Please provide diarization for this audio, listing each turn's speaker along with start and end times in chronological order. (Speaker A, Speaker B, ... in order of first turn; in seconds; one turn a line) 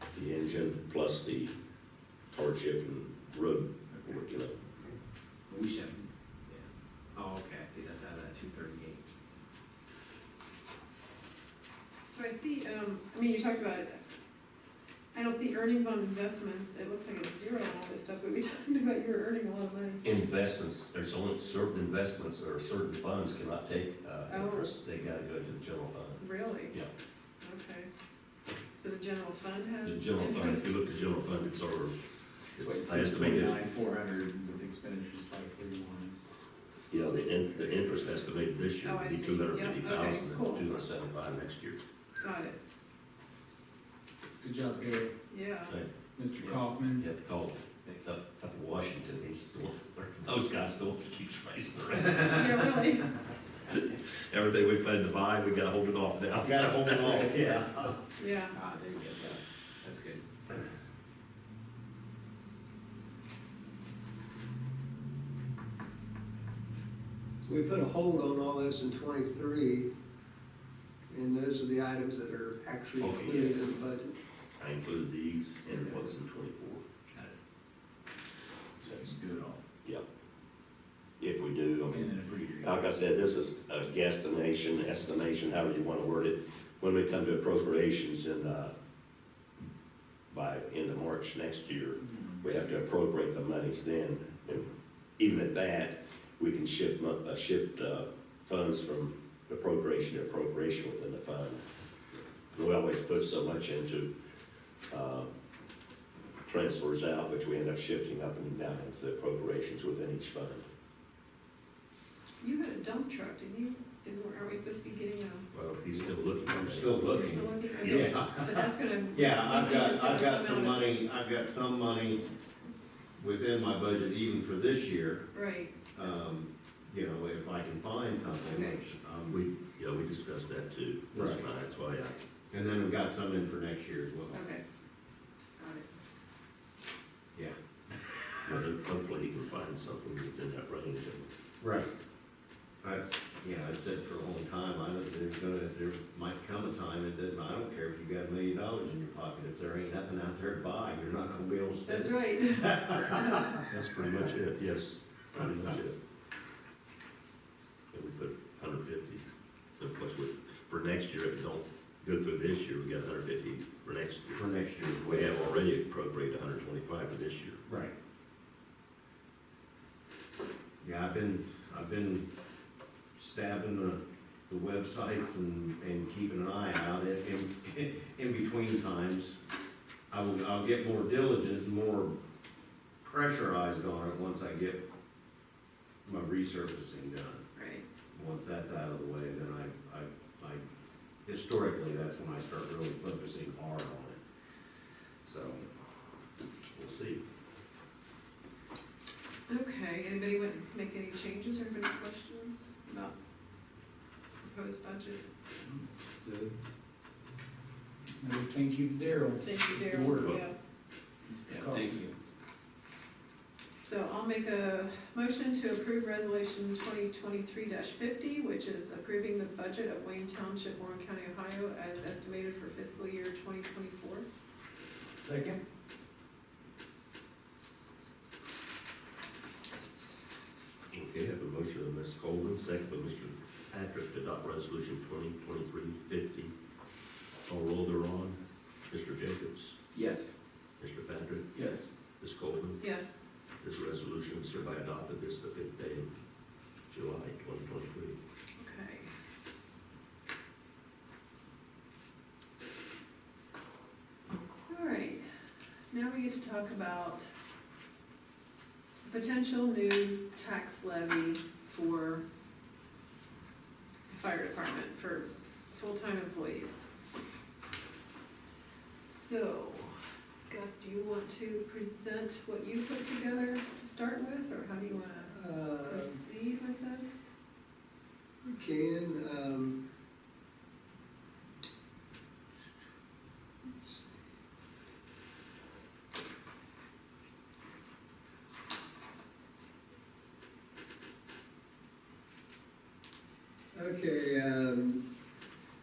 Speaker A: 0.1-1.5
Speaker A: 2.3-4.6
Speaker B: 5.5-6.1
Speaker C: 6.5-9.1
Speaker D: 12.1-14.0
Speaker D: 15.1-20.0
Speaker A: 20.0-26.9
Speaker D: 24.3-24.8
Speaker D: 26.2-26.8
Speaker D: 27.4-27.9
Speaker D: 28.8-30.8
Speaker A: 29.8-31.9
Speaker A: 32.5-33.6
Speaker B: 32.6-36.3
Speaker A: 36.9-41.8
Speaker D: 38.8-40.9
Speaker D: 42.2-42.6
Speaker B: 44.4-45.1
Speaker D: 45.3-45.8
Speaker B: 46.2-47.1
Speaker C: 46.4-46.6
Speaker A: 47.0-52.7
Speaker D: 52.2-53.1
Speaker A: 53.7-57.6
Speaker E: 56.4-58.0
Speaker D: 58.2-58.6
Speaker C: 58.5-60.2
Speaker F: 67.5-69.9
Speaker F: 71.1-74.1
Speaker A: 73.0-73.8
Speaker A: 74.6-76.9
Speaker A: 78.8-79.1
Speaker B: 78.8-79.6
Speaker A: 81.2-88.7
Speaker B: 81.9-82.7
Speaker A: 90.3-94.7
Speaker A: 95.2-101.6
Speaker A: 102.5-104.1
Speaker A: 104.9-105.3
Speaker A: 106.5-110.7
Speaker D: 112.4-115.5
Speaker A: 115.5-118.2
Speaker E: 116.5-122.2
Speaker D: 117.0-121.0
Speaker E: 123.2-125.3
Speaker D: 125.3-126.2
Speaker E: 125.9-129.4
Speaker D: 128.5-128.8
Speaker A: 129.3-132.2
Speaker E: 131.1-131.4
Speaker E: 132.5-134.4
Speaker D: 134.3-134.6
Speaker D: 135.6-135.9
Speaker E: 138.2-138.6
Speaker A: 138.4-141.3
Speaker E: 141.6-141.9
Speaker E: 142.8-154.3
Speaker D: 151.8-153.2
Speaker A: 153.7-156.0
Speaker A: 157.9-159.3
Speaker A: 159.8-164.4
Speaker E: 164.3-165.6
Speaker A: 165.0-167.6
Speaker E: 167.7-167.9
Speaker E: 170.8-172.3
Speaker E: 173.2-179.4
Speaker E: 180.1-182.2
Speaker E: 183.0-184.8
Speaker E: 186.1-187.4
Speaker D: 187.6-187.8
Speaker E: 188.1-190.6
Speaker E: 191.2-194.2
Speaker E: 195.2-195.7
Speaker E: 196.7-197.2
Speaker D: 199.5-203.1
Speaker D: 204.4-205.3
Speaker B: 205.7-206.5
Speaker B: 208.2-210.4
Speaker D: 209.4-210.7
Speaker B: 211.3-212.0
Speaker C: 211.5-212.1
Speaker D: 213.8-224.3
Speaker B: 225.2-225.6
Speaker A: 230.9-236.5
Speaker A: 237.5-239.8
Speaker A: 240.8-241.5
Speaker A: 242.2-242.8
Speaker D: 242.8-243.3
Speaker A: 243.6-246.1
Speaker A: 246.9-248.2
Speaker D: 248.6-249.1
Speaker D: 254.7-255.3
Speaker D: 255.9-257.3
Speaker D: 259.1-262.2
Speaker D: 264.1-266.9
Speaker D: 269.1-277.3
Speaker F: 275.3-276.2
Speaker F: 278.4-279.8
Speaker F: 293.7-295.0